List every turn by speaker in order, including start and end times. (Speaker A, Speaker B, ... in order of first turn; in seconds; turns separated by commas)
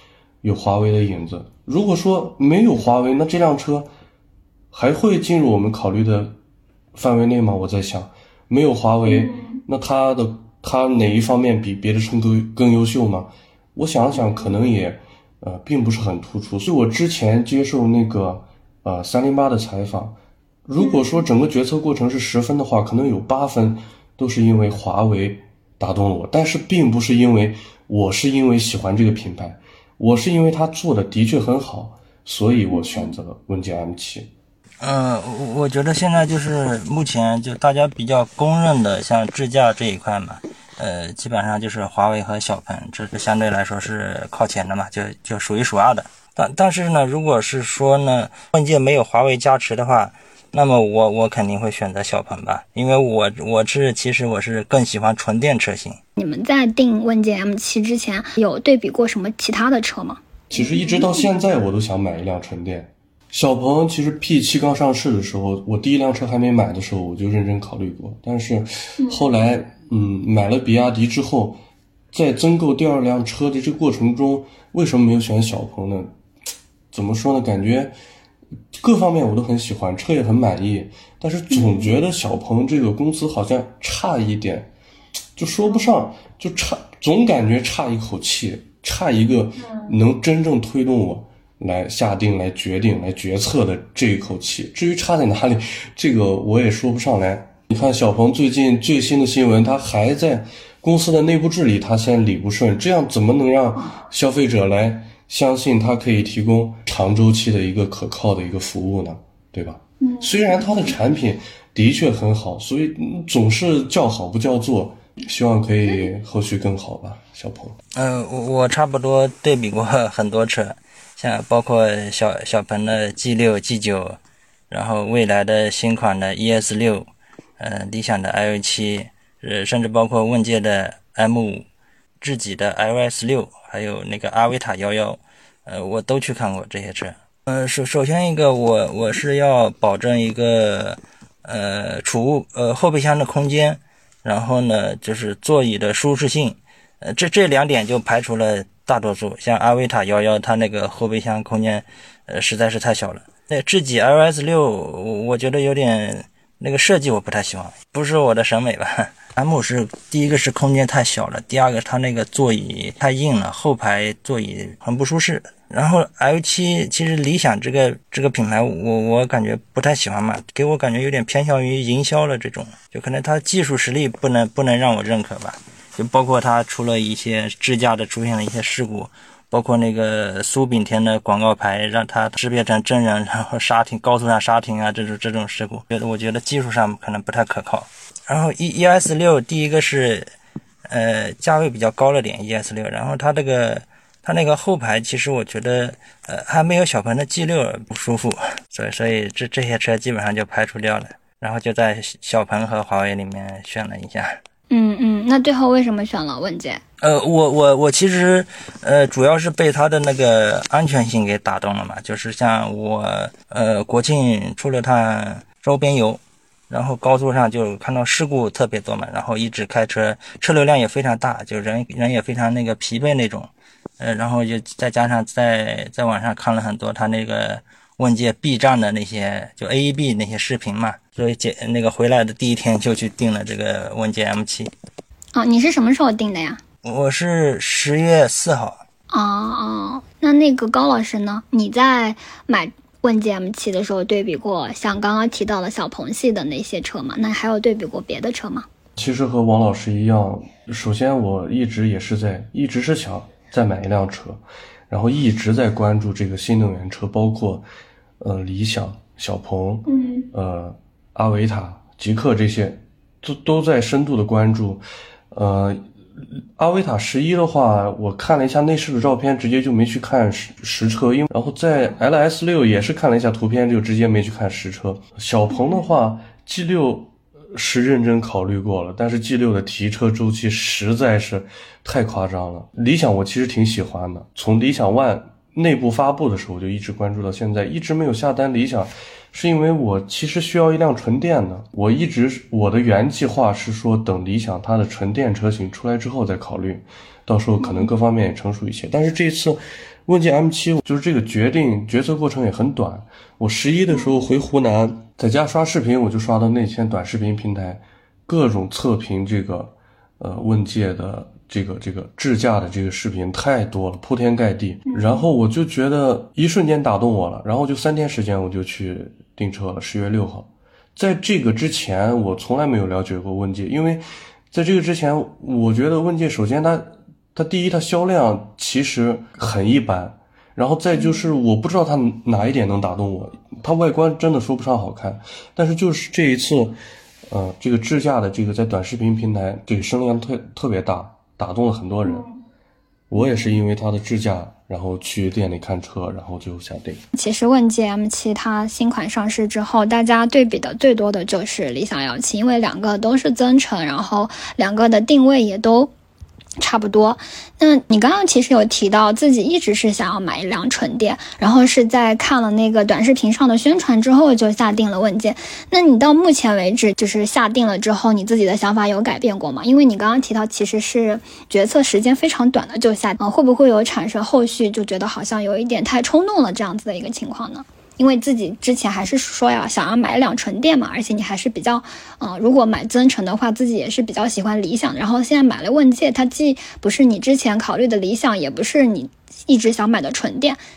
Speaker A: 0.4-3.9, Speaker A: 4.7-6.4, Speaker A: 6.9-20.2, Speaker A: 20.7-34.3, Speaker B: 34.8-56.0, Speaker C: 56.2-61.1, Speaker A: 60.5-71.6, Speaker A: 72.1-76.1, Speaker A: 76.9-77.9, Speaker A: 78.7-84.7, Speaker C: 81.6-81.9, Speaker A: 85.4-117.8, Speaker C: 110.0-110.7, Speaker B: 118.0-124.2, Speaker B: 124.7-127.1, Speaker B: 127.6-131.7, Speaker B: 132.2-190.3, Speaker B: 190.9-204.4, Speaker C: 204.7-206.8, Speaker B: 207.0-234.7, Speaker C: 235.3-236.6, Speaker B: 236.8-238.8, Speaker C: 239.1-248.7, Speaker A: 249.0-257.6, Speaker A: 258.2-336.8, Speaker C: 259.9-260.2, Speaker C: 297.6-297.9, Speaker A: 337.3-342.3, Speaker A: 343.1-347.0, Speaker C: 347.1-355.9, Speaker C: 356.6-390.6